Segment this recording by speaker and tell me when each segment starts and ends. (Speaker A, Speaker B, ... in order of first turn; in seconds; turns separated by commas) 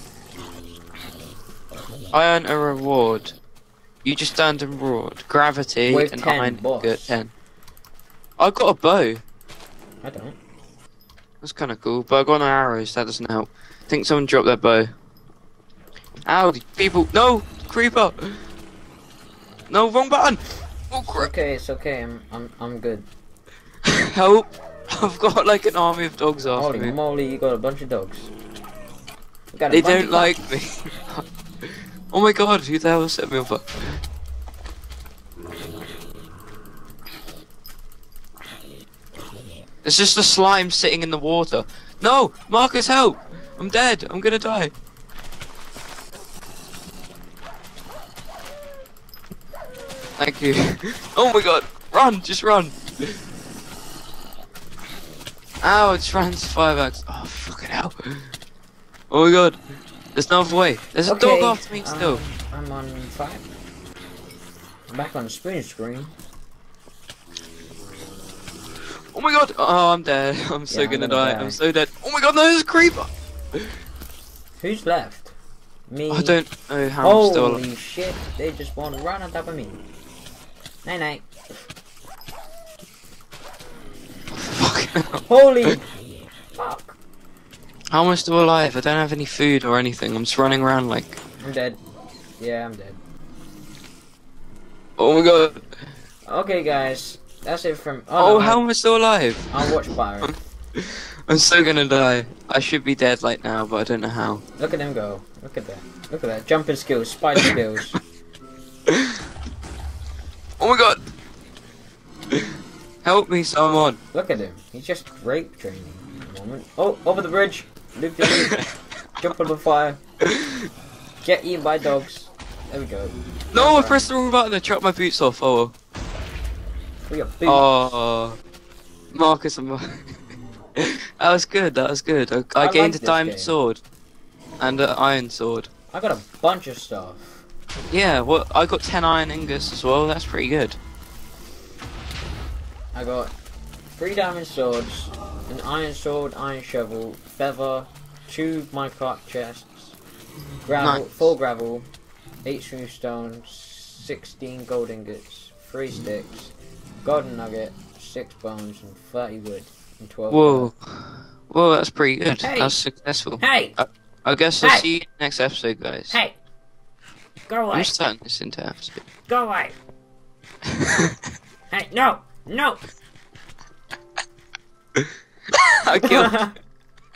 Speaker A: 2.1-3.4, Speaker A: 4.0-7.3, Speaker B: 5.9-7.2, Speaker A: 8.4-9.2, Speaker B: 10.0-10.4, Speaker A: 11.4-14.9, Speaker A: 16.3-18.4, Speaker A: 19.7-21.3, Speaker B: 21.0-23.1, Speaker A: 23.8-27.0, Speaker B: 26.5-28.3, Speaker B: 29.5-30.3, Speaker A: 29.7-34.0, Speaker A: 39.8-44.7, Speaker A: 50.2-53.2, Speaker A: 55.6-58.3, Speaker A: 59.1-59.6, Speaker A: 60.1-62.2, Speaker B: 61.0-63.4, Speaker B: 64.9-66.1, Speaker A: 69.1-73.7, Speaker B: 70.7-71.6, Speaker B: 74.6-75.3, Speaker B: 75.9-76.4, Speaker A: 76.1-77.6, Speaker B: 77.0-79.8, Speaker B: 80.8-81.6, Speaker A: 84.3-85.8, Speaker B: 85.3-85.8, Speaker B: 86.5-87.0, Speaker A: 87.9-91.2, Speaker B: 91.4-91.8, Speaker B: 92.4-93.0, Speaker A: 95.0-95.7, Speaker B: 96.3-98.6, Speaker A: 98.2-99.7, Speaker B: 99.5-100.3, Speaker A: 100.2-104.4, Speaker B: 104.6-108.0, Speaker A: 108.9-109.2, Speaker A: 110.6-111.0, Speaker A: 113.0-114.0, Speaker B: 114.1-118.7, Speaker A: 118.2-118.6, Speaker B: 119.2-120.0, Speaker A: 120.2-120.7, Speaker B: 121.2-124.1, Speaker A: 123.5-125.7, Speaker B: 127.1-127.7, Speaker A: 127.5-128.4, Speaker A: 129.1-130.2, Speaker A: 130.8-133.8, Speaker B: 132.6-133.6, Speaker A: 134.6-135.7, Speaker B: 135.9-137.4, Speaker A: 137.9-140.8, Speaker B: 142.9-143.3, Speaker B: 143.9-150.0, Speaker B: 150.7-151.9, Speaker A: 150.8-151.3, Speaker B: 152.4-160.7, Speaker A: 160.3-166.2, Speaker B: 162.4-162.8, Speaker B: 163.4-163.8, Speaker B: 164.6-164.9, Speaker B: 166.1-166.4, Speaker B: 167.5-167.9, Speaker A: 167.7-169.0, Speaker B: 169.3-169.8, Speaker A: 170.7-171.1, Speaker B: 171.7-172.8, Speaker A: 175.8-176.4, Speaker B: 176.0-176.5